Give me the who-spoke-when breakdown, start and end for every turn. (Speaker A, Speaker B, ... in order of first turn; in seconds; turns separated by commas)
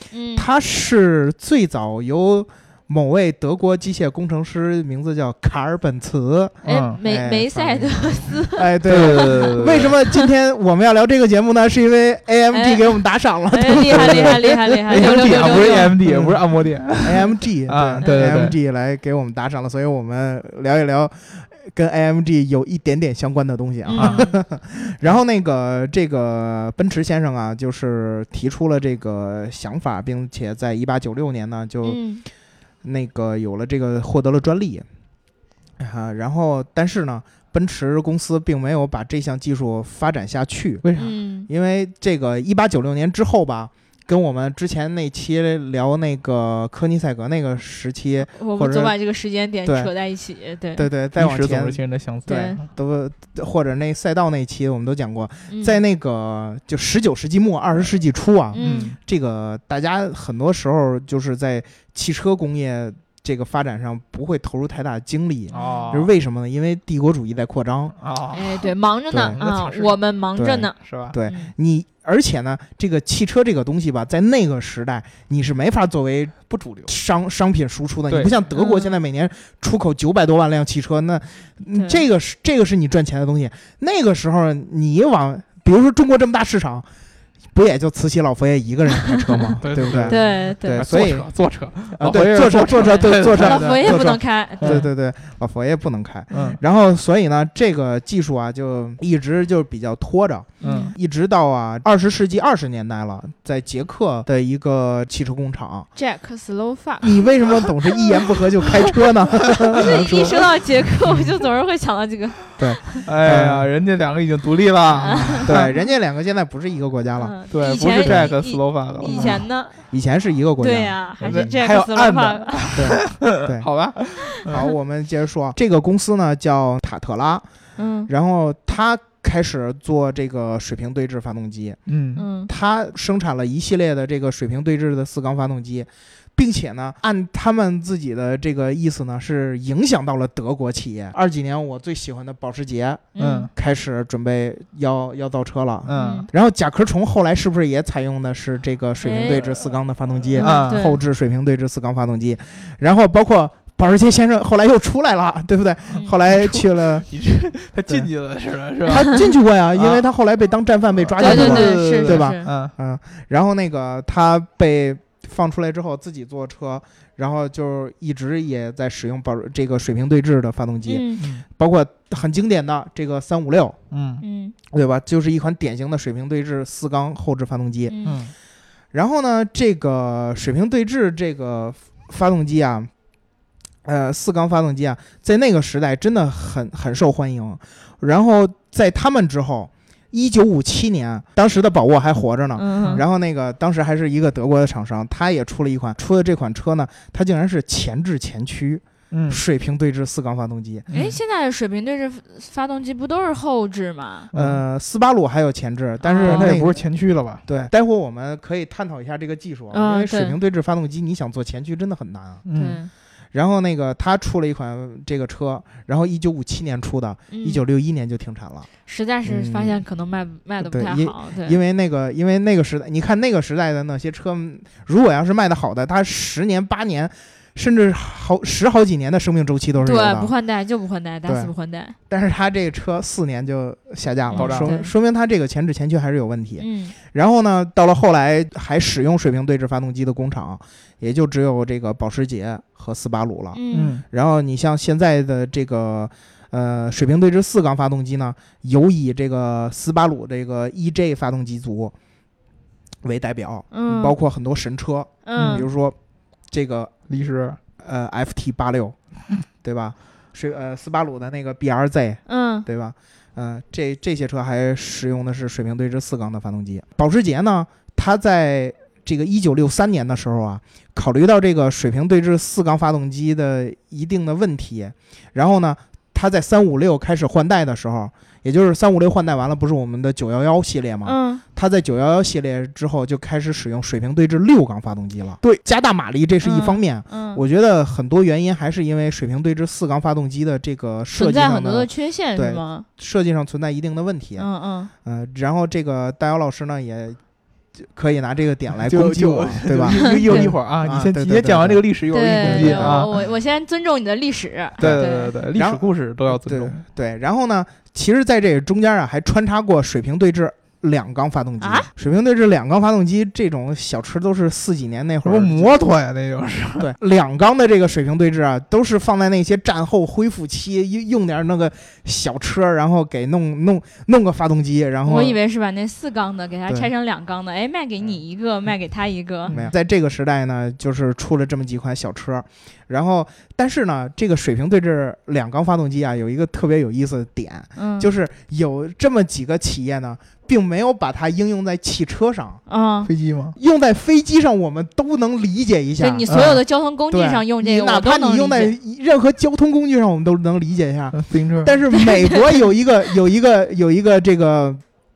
Speaker A: 0.1-0.5, Speaker B: 0.4-16.4, Speaker C: 6.6-7.0, Speaker A: 6.7-9.6, Speaker C: 8.8-9.9, Speaker A: 12.5-12.9, Speaker A: 13.5-16.0, Speaker C: 13.9-18.6, Speaker B: 17.0-32.0, Speaker A: 18.0-18.4, Speaker A: 23.9-24.4, Speaker C: 24.0-24.2, Speaker A: 31.8-32.2, Speaker B: 32.8-34.9, Speaker B: 35.8-49.0, Speaker C: 40.8-41.1, Speaker A: 41.0-41.5, Speaker A: 48.3-50.9, Speaker B: 49.6-49.9, Speaker B: 50.8-68.0, Speaker C: 51.1-52.6, Speaker A: 52.3-52.6, Speaker A: 55.5-55.8, Speaker A: 58.5-59.0, Speaker C: 58.6-59.0, Speaker A: 65.5-65.9, Speaker C: 65.5-66.1, Speaker C: 68.0-68.7, Speaker A: 68.3-71.5, Speaker B: 69.1-69.4, Speaker C: 69.3-70.0, Speaker B: 70.4-86.9, Speaker C: 70.8-71.2, Speaker C: 76.5-76.9, Speaker C: 78.1-78.4, Speaker A: 78.5-79.0, Speaker A: 81.7-82.0, Speaker B: 87.5-91.3, Speaker C: 89.6-94.0, Speaker A: 90.1-90.9, Speaker B: 91.9-105.9, Speaker A: 92.7-94.9, Speaker C: 94.6-94.9, Speaker C: 96.3-96.6, Speaker A: 100.6-101.0, Speaker C: 100.6-100.9, Speaker A: 106.0-107.5, Speaker B: 107.0-110.4, Speaker C: 109.6-110.4, Speaker A: 109.7-113.0, Speaker B: 111.1-111.3, Speaker B: 112.6-113.7, Speaker C: 113.0-115.7, Speaker B: 115.0-117.4, Speaker A: 115.0-115.8, Speaker A: 117.2-119.8, Speaker C: 117.5-119.4, Speaker B: 118.0-118.3, Speaker B: 119.0-121.6, Speaker A: 120.6-122.8, Speaker C: 121.2-124.6, Speaker B: 122.8-123.7, Speaker B: 124.5-127.5, Speaker A: 127.8-128.1, Speaker B: 128.1-131.8, Speaker C: 131.9-132.3, Speaker A: 132.2-132.5, Speaker B: 132.5-157.1, Speaker A: 143.2-143.5, Speaker C: 143.2-143.5, Speaker C: 145.9-146.3, Speaker A: 146.0-146.3, Speaker A: 149.0-149.6, Speaker C: 150.3-150.9, Speaker A: 150.4-151.0, Speaker C: 156.3-160.1, Speaker B: 158.9-173.8, Speaker C: 161.0-162.7, Speaker A: 161.2-162.5, Speaker A: 170.9-171.2, Speaker C: 173.9-174.2, Speaker A: 174.2-174.5, Speaker B: 174.7-178.0, Speaker A: 177.9-178.2, Speaker C: 178.1-178.3, Speaker B: 178.9-182.9, Speaker B: 183.8-200.9, Speaker A: 192.6-193.0, Speaker C: 199.1-199.4, Speaker C: 200.9-201.2, Speaker A: 200.9-204.3, Speaker C: 204.3-204.6, Speaker B: 204.3-206.8, Speaker A: 206.0-206.6, Speaker C: 206.2-207.7, Speaker B: 207.5-212.4, Speaker A: 209.7-210.4, Speaker C: 212.4-212.8, Speaker A: 212.5-212.9, Speaker B: 213.3-218.7, Speaker A: 217.3-217.6, Speaker A: 218.9-221.6, Speaker B: 219.2-219.8, Speaker B: 220.6-230.3, Speaker A: 229.8-231.9, Speaker B: 231.3-231.5, Speaker B: 232.1-251.9, Speaker A: 234.3-234.9, Speaker C: 234.3-234.7, Speaker A: 236.6-236.9, Speaker A: 243.5-243.9, Speaker C: 243.7-244.0, Speaker B: 253.0-256.0, Speaker A: 253.7-254.1, Speaker A: 255.2-255.7, Speaker C: 255.4-255.7, Speaker B: 256.5-256.9, Speaker C: 257.1-257.6, Speaker B: 257.8-259.0, Speaker B: 259.6-294.5, Speaker A: 262.3-262.7, Speaker A: 281.1-281.4, Speaker A: 286.4-287.4, Speaker A: 291.2-292.9, Speaker A: 294.4-294.9, Speaker B: 295.0-297.2, Speaker B: 297.8-301.9, Speaker C: 298.9-303.1, Speaker A: 300.1-300.5, Speaker A: 302.1-305.3, Speaker B: 302.4-303.2, Speaker B: 304.8-315.8, Speaker C: 304.8-306.8, Speaker A: 311.6-311.9, Speaker C: 315.2-316.9, Speaker B: 316.8-325.4, Speaker A: 325.1-329.6, Speaker B: 329.5-342.6, Speaker A: 337.8-338.1, Speaker A: 342.7-343.1, Speaker C: 343.1-343.6, Speaker B: 343.6-354.8, Speaker A: 346.0-348.8, Speaker C: 346.3-346.6, Speaker C: 351.2-351.8, Speaker A: 352.0-352.4